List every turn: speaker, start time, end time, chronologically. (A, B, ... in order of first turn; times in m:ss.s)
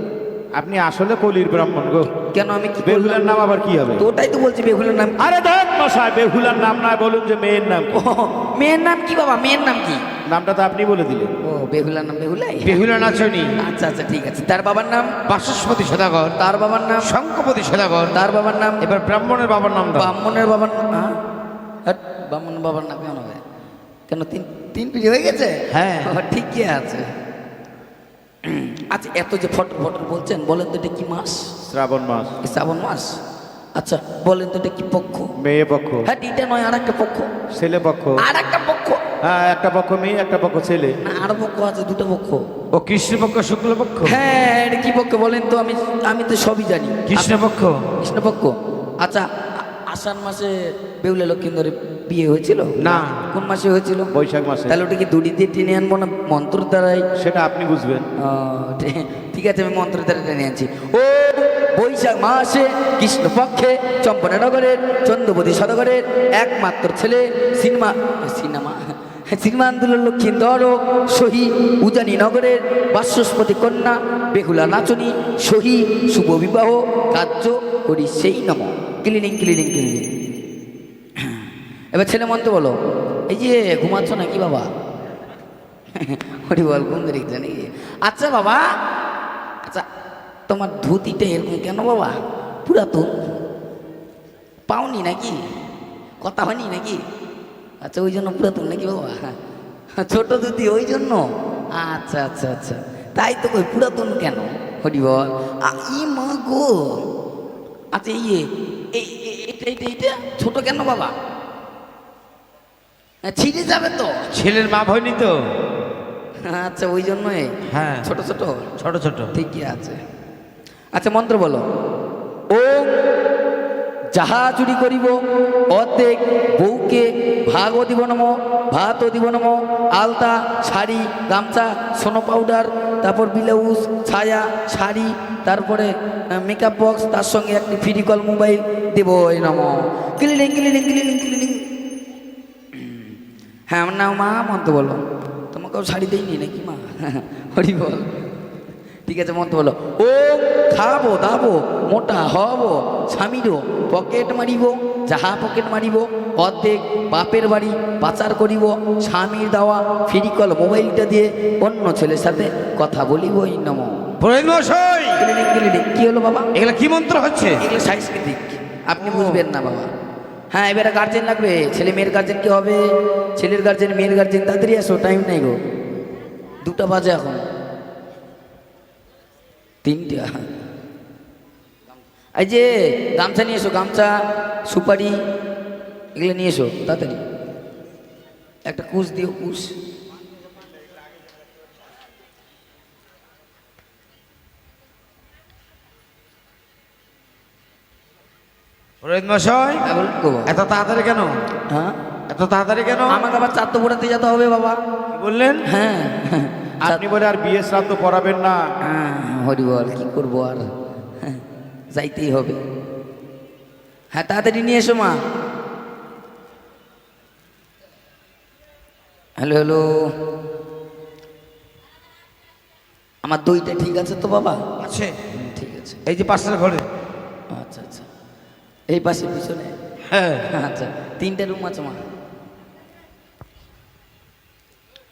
0:00.5-0:02.1 A
0:02.2-0:03.3 B
0:02.8-0:04.0 A
0:04.0-0:05.3 B
0:05.2-0:07.9 A
0:07.9-0:10.0 B
0:10.2-0:11.4 A
0:11.4-0:12.8 B
0:12.6-0:13.5 C
0:13.6-0:15.1 B
0:15.3-0:16.4 C
0:16.4-0:17.1 B
0:17.0-0:18.2 C
0:18.1-0:18.8 B
0:18.8-0:20.2 C
0:19.9-0:21.2 B
0:21.8-0:23.4 B
0:24.1-0:27.1 B
0:25.7-0:26.1 C
0:28.4-0:31.5 B
0:31.6-0:32.3 A
0:32.4-0:33.2 B
0:33.8-0:35.3 B
0:35.4-0:36.1 A
0:36.0-0:37.3 B
0:37.5-0:38.2 A
0:38.2-0:39.0 B
0:39.2-0:41.0 A
0:41.0-0:42.4 B
0:42.7-0:44.2 C
0:44.0-0:47.4 B
0:47.1-0:47.8 C
0:48.0-0:54.1 B
0:52.8-0:53.2 C
0:54.1-0:54.8 A
0:54.7-0:57.1 B
0:57.2-0:58.1 A
0:58.2-1:20.1 B
1:21.2-1:22.8 B
1:23.3-1:24.7 B
1:25.9-1:28.7 B
1:30.5-1:33.2 B
1:34.7-1:35.4 B
1:36.2-1:37.0 B
1:37.8-1:39.4 B
1:40.0-1:47.0 B
1:47.9-1:51.1 B
1:53.2-1:54.2 B
1:54.3-1:55.4 C
1:56.4-1:58.7 B
1:57.7-1:58.1 C
1:58.8-1:59.3 C
1:59.3-2:00.0 B
2:00.9-2:01.6 B
2:02.5-2:03.0 B
2:04.1-2:05.2 B
2:05.7-2:21.6 B
2:22.7-2:23.2 B
2:23.7-2:28.1 B
2:29.0-2:44.1 B
2:44.2-2:45.2 C
2:45.2-2:46.5 B
2:46.5-2:47.6 C
2:47.6-2:49.9 B
2:49.0-2:49.4 C
2:50.5-2:55.6 B
2:56.6-2:57.4 B
2:59.8-3:00.4 B
3:02.3-3:05.2 B
3:06.1-3:07.2 B
3:08.6-3:09.8 B
3:19.0-3:19.8 C
3:19.8-3:20.5 B
3:20.4-3:21.4 C
3:21.7-3:22.0 B
3:22.3-3:23.2 C
3:23.1-3:24.8 B
3:25.1-3:25.6 C
3:25.6-3:27.0 B
3:26.8-3:28.6 A
3:28.8-3:30.7 B
3:31.2-3:32.6 B
3:34.1-3:35.2 B
3:39.4-3:40.2 B
3:43.2-3:44.6 B
3:44.8-3:45.2 C
3:45.3-3:46.0 B
3:46.0-3:46.8 C
3:47.5-3:48.0 B
3:48.9-3:49.7 B
3:50.1-3:50.5 C
3:50.4-3:52.0 B